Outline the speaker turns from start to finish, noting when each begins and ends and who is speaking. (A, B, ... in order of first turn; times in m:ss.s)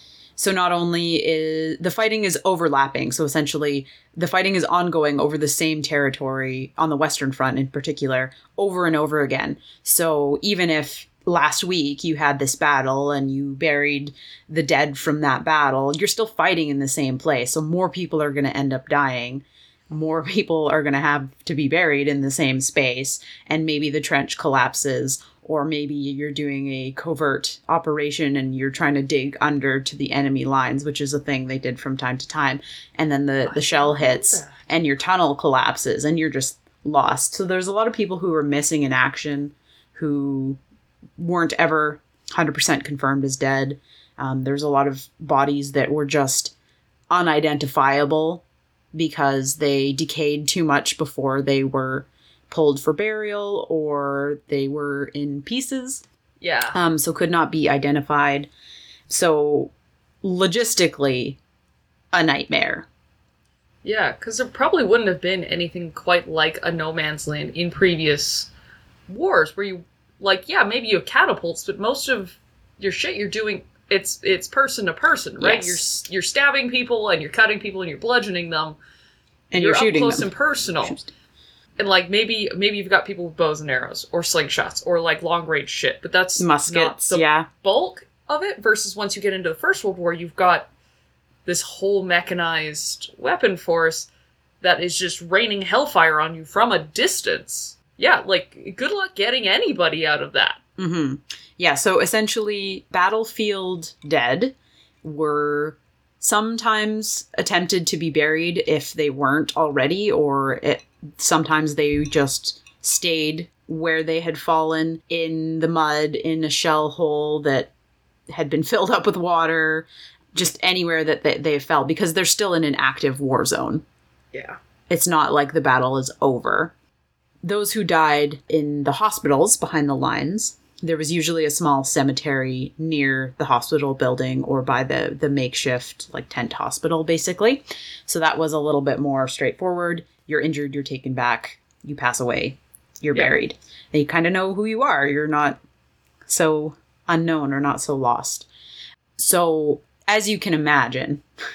0:00.4-0:40.6 A
0:33.5-0:34.6 B
0:41.2-0:46.5 A
0:47.1-0:56.0 A
0:56.4-0:56.8 B
0:56.7-0:58.5 A
0:59.1-1:01.4 A
1:02.1-1:02.9 A
1:03.8-1:08.5 B
1:09.1-1:18.8 B
1:15.4-1:15.9 A
1:19.5-1:20.3 A
1:19.6-1:21.0 B
1:20.8-1:21.1 A
1:21.8-1:30.7 B
1:26.4-1:27.5 A
1:31.5-1:34.1 B
1:34.6-1:40.6 B
1:40.8-1:57.7 A
1:58.3-2:03.8 A
2:04.3-2:04.6 B
2:04.9-2:06.7 A
2:07.4-2:25.6 A
2:26.3-2:28.5 A
2:29.2-2:31.2 A